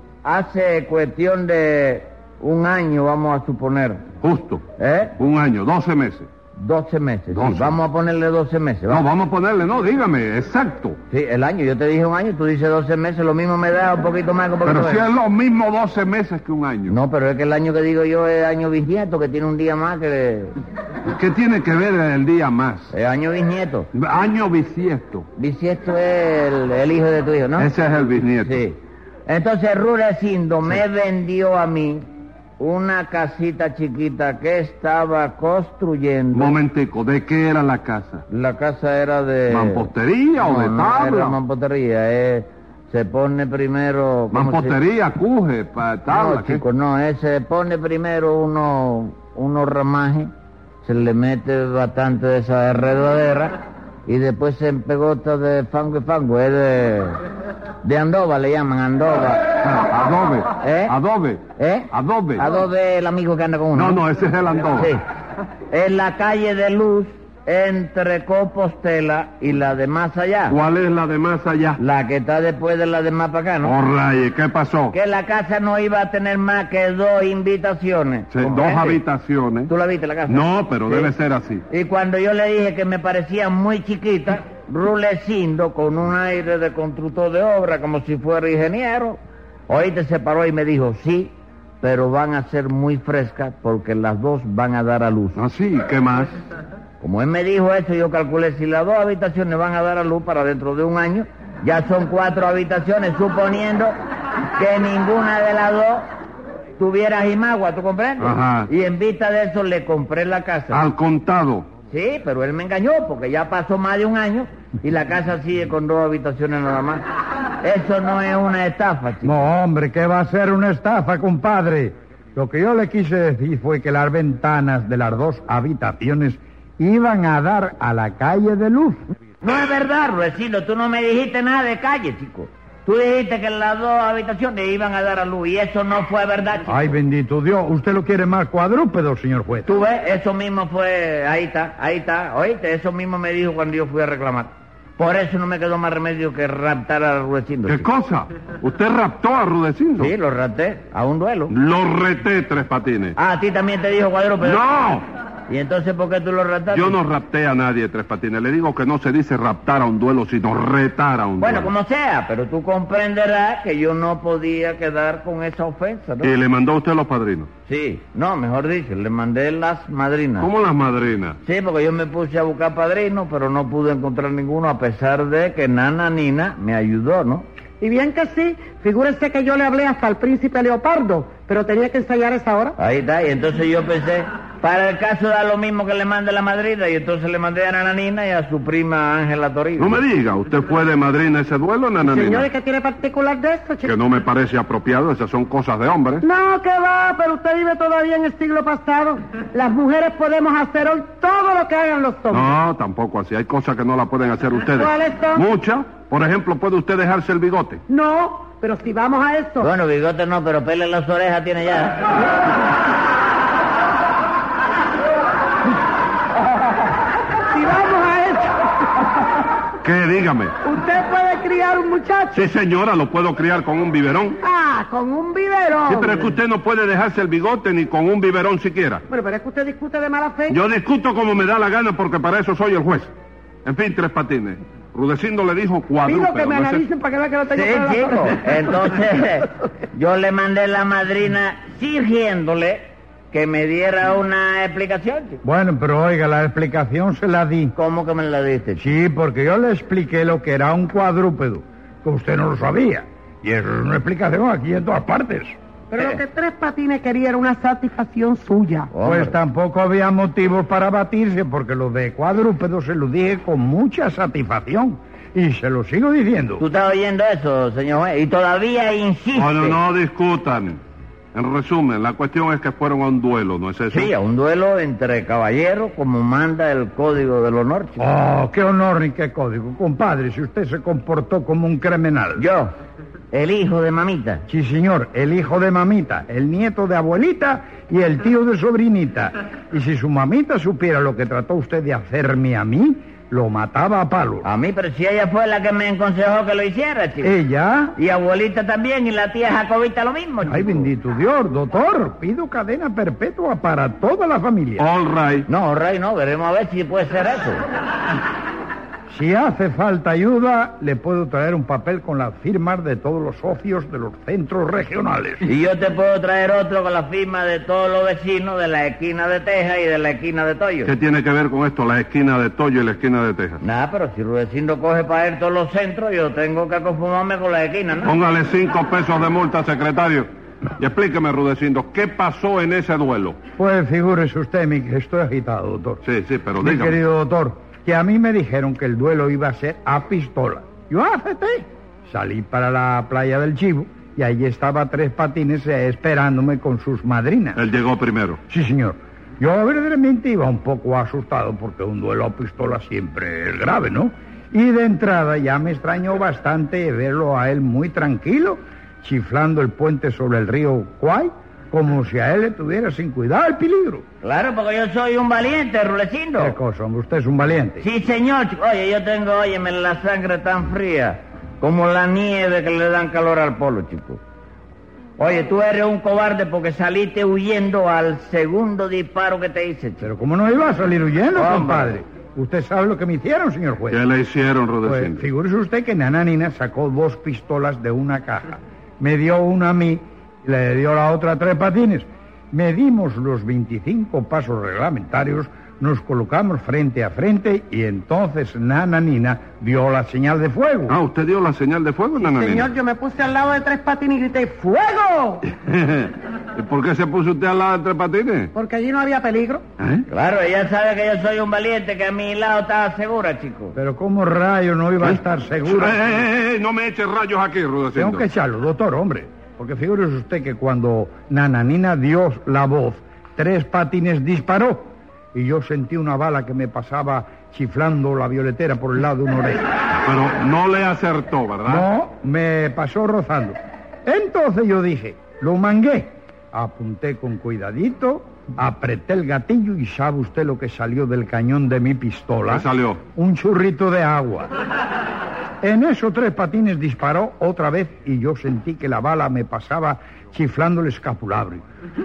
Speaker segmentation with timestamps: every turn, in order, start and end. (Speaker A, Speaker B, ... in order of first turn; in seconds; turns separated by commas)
Speaker A: 0.2-4.0, Speaker B: 4.2-4.6, Speaker A: 4.8-5.2, Speaker B: 5.2-6.3, Speaker A: 6.6-9.1, Speaker B: 7.3-7.8, Speaker B: 8.9-11.0, Speaker A: 11.1-15.1, Speaker B: 14.6-17.0, Speaker A: 16.9-20.5, Speaker B: 21.1-22.9, Speaker A: 22.9-23.9, Speaker B: 23.9-25.3, Speaker A: 25.4-27.7, Speaker B: 27.6-28.6, Speaker A: 28.4-36.6, Speaker B: 36.3-38.2, Speaker A: 38.3-44.8, Speaker B: 39.5-41.4, Speaker B: 44.3-46.6, Speaker A: 46.1-50.3, Speaker A: 50.8-57.2, Speaker A: 57.8-59.4, Speaker B: 59.6-62.4, Speaker A: 60.6-61.0, Speaker A: 61.6-64.0, Speaker B: 63.8-64.9, Speaker A: 64.7-65.0, Speaker A: 65.7-70.6, Speaker B: 70.5-71.8, Speaker A: 71.8-73.8, Speaker B: 73.6-75.0, Speaker A: 74.9-79.0, Speaker B: 78.3-79.7, Speaker A: 79.7-81.1, Speaker B: 80.3-81.6, Speaker A: 81.7-95.4, Speaker B: 95.3-96.4, Speaker A: 97.0-104.0, Speaker A: 104.5-106.1, Speaker A: 106.8-110.8, Speaker B: 108.2-108.7, Speaker B: 110.7-111.7, Speaker A: 111.9-117.0, Speaker A: 117.6-119.5, Speaker C: 119.2-129.0, Speaker A: 129.4-136.9, Speaker C: 136.7-139.7, Speaker A: 139.7-147.9, Speaker B: 147.7-150.1, Speaker A: 150.0-151.5, Speaker B: 151.5-153.2, Speaker A: 153.2-154.6, Speaker B: 154.4-155.1, Speaker A: 155.5-157.0, Speaker B: 156.7-161.7, Speaker A: 161.4-166.3, Speaker B: 166.2-167.5, Speaker A: 167.7-170.5, Speaker B: 170.4-171.4, Speaker A: 171.4-177.5, Speaker D: 177.8-182.8, Speaker A: 182.8-190.0, Speaker B: 189.8-192.5, Speaker D: 192.0-193.9, Speaker B: 193.8-196.2, Speaker D: 196.2-202.5, Speaker B: 202.3-207.8, Speaker D: 204.7-205.5, Speaker D: 207.9-209.7, Speaker A: 209.6-212.1, Speaker D: 217.5-219.2, Speaker B: 219.8-220.5, Speaker D: 220.6-222.5, Speaker B: 222.3-224.4, Speaker D: 224.4-226.3, Speaker B: 225.9-229.0, Speaker D: 229.1-230.6, Speaker B: 230.5-233.1, Speaker B: 233.7-236.8, Speaker D: 236.0-238.8, Speaker A: 237.5-245.4, Speaker C: 245.4-247.7, Speaker A: 247.8-248.9, Speaker C: 248.8-255.6, Speaker D: 255.9-258.9, Speaker A: 256.0-256.2, Speaker A: 258.9-259.4, Speaker C: 259.0-266.6, Speaker A: 266.6-269.8, Speaker B: 269.3-270.8, Speaker B: 271.3-274.1, Speaker A: 273.9-278.1, Speaker C: 278.0-282.4, Speaker A: 282.4-282.7, Speaker A: 283.3-284.4, Speaker C: 284.5-294.5, Speaker A: 294.4-297.3, Speaker C: 297.2-297.9, Speaker A: 298.0-300.9, Speaker C: 300.5-304.9, Speaker B: 304.8-305.5, Speaker A: 305.5-307.6, Speaker C: 309.1-315.4, Speaker A: 315.4-320.9, Speaker B: 320.9-323.6, Speaker A: 323.6-328.1, Speaker B: 328.1-333.4, Speaker C: 333.6-336.0, Speaker B: 336.0-337.0, Speaker C: 336.6-347.6, Speaker B: 347.6-348.4, Speaker C: 348.5-364.1, Speaker A: 364.2-366.6, Speaker C: 366.4-367.9, Speaker A: 367.8-374.2, Speaker A: 375.2-380.1, Speaker C: 380.0-384.0, Speaker A: 381.3-382.0, Speaker B: 383.9-385.2, Speaker C: 384.8-401.0, Speaker B: 400.9-402.7, Speaker D: 402.2-405.4, Speaker B: 405.5-408.5, Speaker D: 408.5-409.6, Speaker B: 409.8-410.1, Speaker A: 410.1-413.8, Speaker C: 413.8-416.0, Speaker B: 415.0-418.3, Speaker C: 417.9-429.7, Speaker B: 430.0-431.9, Speaker C: 431.7-433.6, Speaker C: 434.1-444.5, Speaker B: 442.5-443.0, Speaker C: 445.6-451.6